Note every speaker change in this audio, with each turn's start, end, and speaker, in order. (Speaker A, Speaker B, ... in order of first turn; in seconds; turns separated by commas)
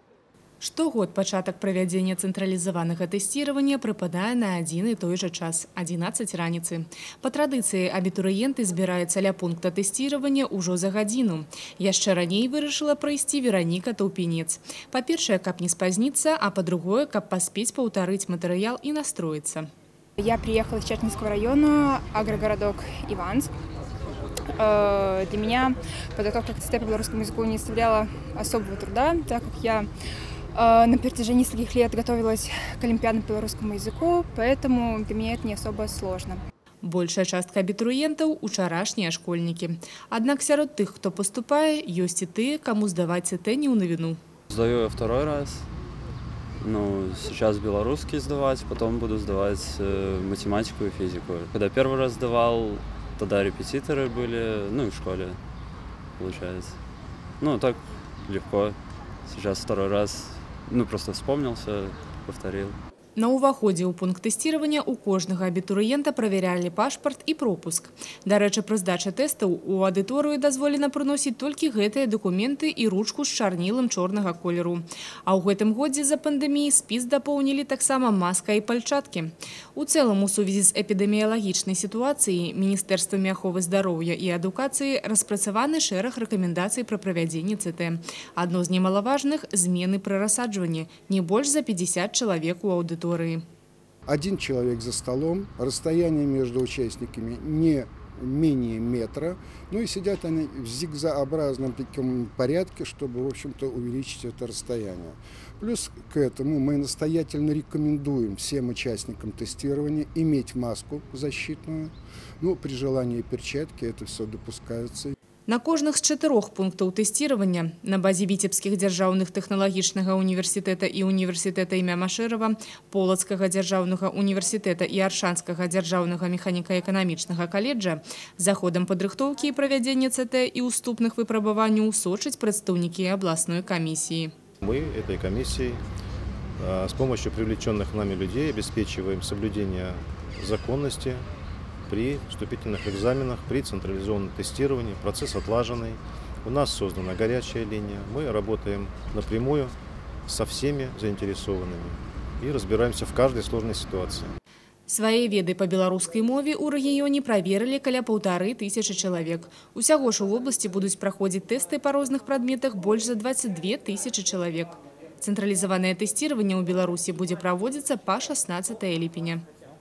Speaker A: 0.6-19.7, Speaker B: 20.2-23.5, Speaker B: 24.6-29.9, Speaker B: 30.6-36.4, Speaker A: 36.8-44.2, Speaker C: 44.5-45.7, Speaker C: 46.6-55.4, Speaker C: 56.2-56.8, Speaker C: 57.4-62.8, Speaker A: 63.2-93.4, Speaker D: 94.1-115.1, Speaker A: 115.5-134.3, Speaker E: 134.6-135.8, Speaker E: 136.6-141.2, Speaker E: 141.9-149.8, Speaker E: 150.3-154.3, Speaker A: 154.9-169.4